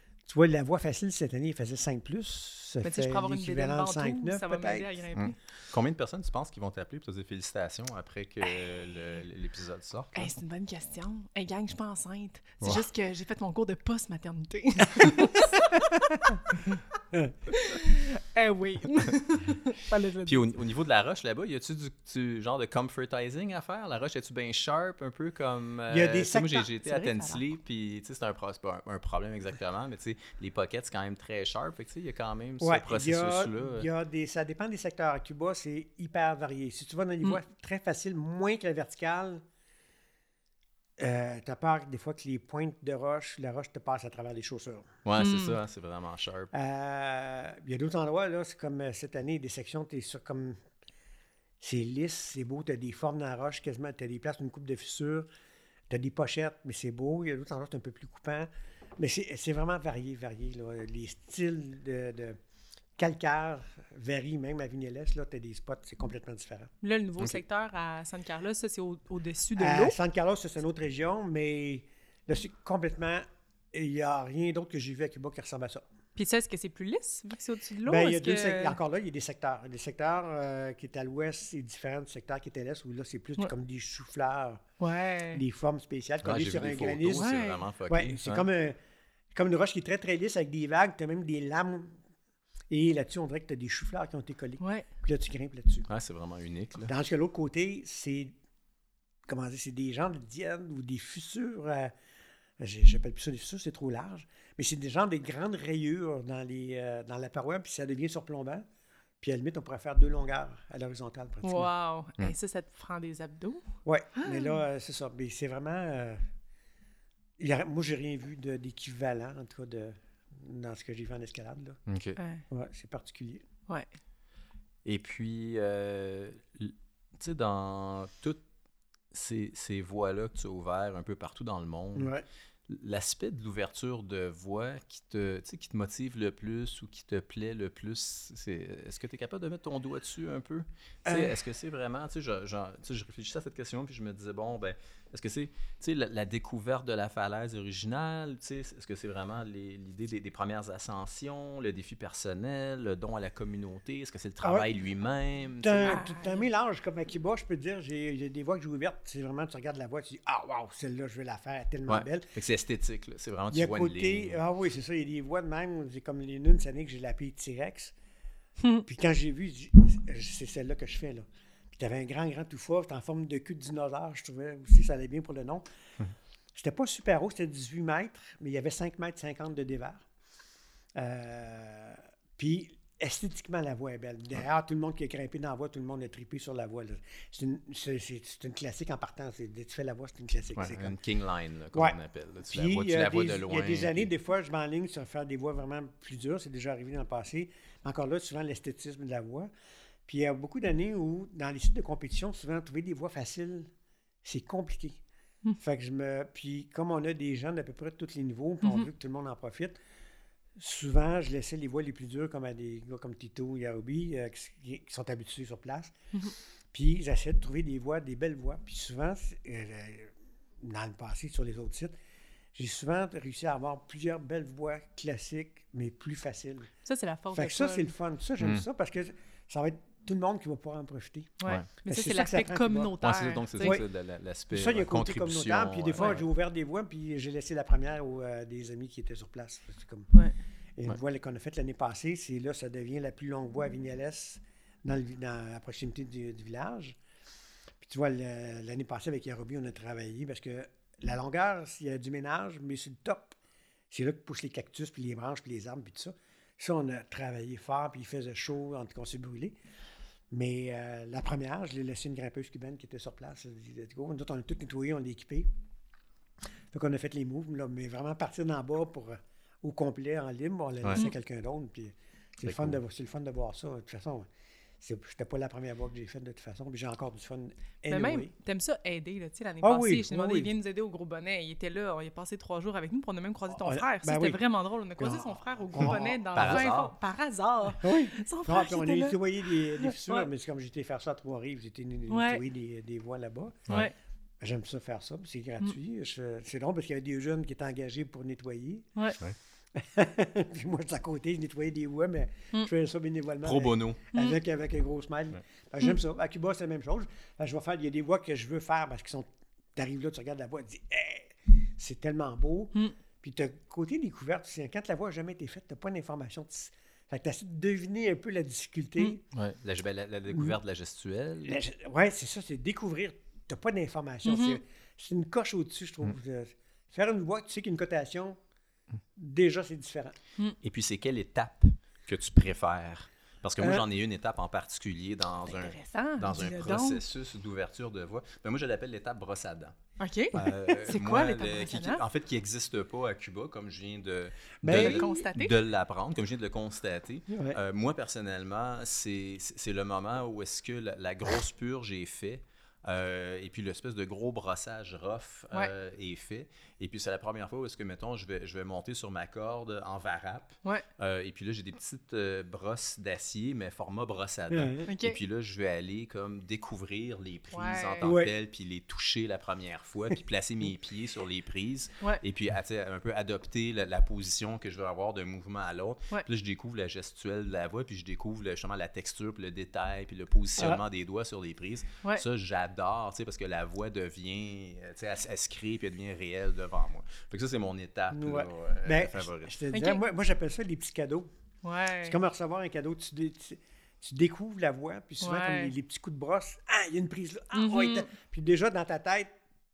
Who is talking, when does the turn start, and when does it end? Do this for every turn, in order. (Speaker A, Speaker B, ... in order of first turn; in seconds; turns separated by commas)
Speaker A: 0.3-4.9, Speaker B: 2.8-5.4, Speaker C: 5.2-10.4, Speaker B: 10.1-16.8, Speaker A: 15.0-16.4, Speaker B: 17.5-20.4, Speaker C: 20.2-33.9, Speaker A: 25.9-26.7, Speaker B: 26.8-27.4, Speaker A: 32.6-39.4, Speaker A: 41.0-44.9, Speaker C: 45.0-46.5, Speaker B: 45.2-45.6, Speaker A: 46.5-50.6, Speaker A: 51.6-55.3, Speaker A: 55.9-62.4, Speaker A: 63.0-66.7, Speaker B: 66.8-70.0, Speaker A: 69.6-75.8, Speaker B: 76.2-78.8, Speaker A: 77.9-84.6, Speaker B: 84.8-85.4, Speaker A: 85.3-87.3, Speaker C: 86.2-88.5, Speaker B: 87.2-87.6, Speaker A: 87.9-88.8, Speaker A: 89.3-92.0, Speaker A: 92.7-95.9, Speaker B: 94.6-94.9, Speaker C: 95.9-96.9, Speaker A: 96.9-98.3, Speaker A: 99.3-101.9, Speaker A: 102.6-108.7, Speaker A: 109.2-111.7, Speaker B: 111.4-113.6, Speaker A: 113.8-116.2, Speaker B: 114.2-114.6, Speaker A: 117.4-121.8, Speaker C: 121.9-122.2, Speaker B: 122.2-122.4, Speaker A: 122.5-123.4, Speaker C: 124.8-128.4, Speaker C: 129.1-132.1, Speaker A: 132.0-132.2, Speaker C: 132.7-156.0, Speaker A: 141.1-141.4, Speaker A: 154.4-154.7, Speaker A: 155.6-162.3, Speaker B: 155.8-156.5, Speaker C: 161.9-164.4, Speaker A: 163.5-167.9, Speaker A: 168.8-175.7, Speaker A: 176.6-180.1, Speaker A: 181.0-190.9, Speaker C: 190.6-194.1, Speaker A: 191.7-199.5, Speaker A: 200.1-203.7, Speaker A: 204.2-205.0, Speaker A: 205.6-209.8, Speaker B: 208.6-208.9, Speaker A: 210.6-215.9, Speaker A: 216.7-221.9, Speaker A: 222.6-226.7, Speaker B: 226.8-227.9, Speaker A: 227.3-232.9, Speaker B: 231.4-233.8, Speaker C: 233.0-236.2, Speaker A: 233.6-233.8, Speaker A: 234.5-240.1, Speaker A: 240.8-247.0, Speaker A: 247.8-253.4, Speaker A: 253.9-259.6, Speaker A: 260.3-265.5, Speaker A: 266.7-274.3, Speaker C: 272.4-272.8, Speaker A: 274.8-278.3, Speaker B: 277.9-290.3, Speaker A: 279.6-280.5, Speaker A: 283.5-284.4, Speaker A: 285.0-286.6, Speaker C: 285.8-286.9, Speaker A: 287.8-293.7, Speaker B: 292.1-292.4, Speaker B: 293.7-293.9, Speaker A: 294.4-298.9, Speaker A: 299.8-319.2, Speaker C: 303.4-304.0, Speaker C: 319.3-321.6, Speaker A: 321.4-328.4, Speaker B: 324.3-324.6, Speaker A: 329.2-330.1, Speaker C: 330.6-339.8, Speaker A: 333.6-333.9, Speaker B: 335.5-337.0, Speaker B: 340.0-342.0, Speaker C: 340.3-389.6, Speaker A: 344.6-345.3, Speaker B: 344.7-345.6, Speaker A: 347.3-347.6, Speaker A: 364.5-364.9, Speaker B: 364.9-365.2, Speaker B: 367.5-368.1, Speaker A: 368.0-368.3, Speaker A: 388.1-391.3, Speaker B: 389.7-390.0, Speaker B: 391.6-392.1, Speaker A: 392.0-399.3, Speaker B: 395.2-395.7, Speaker B: 397.5-398.1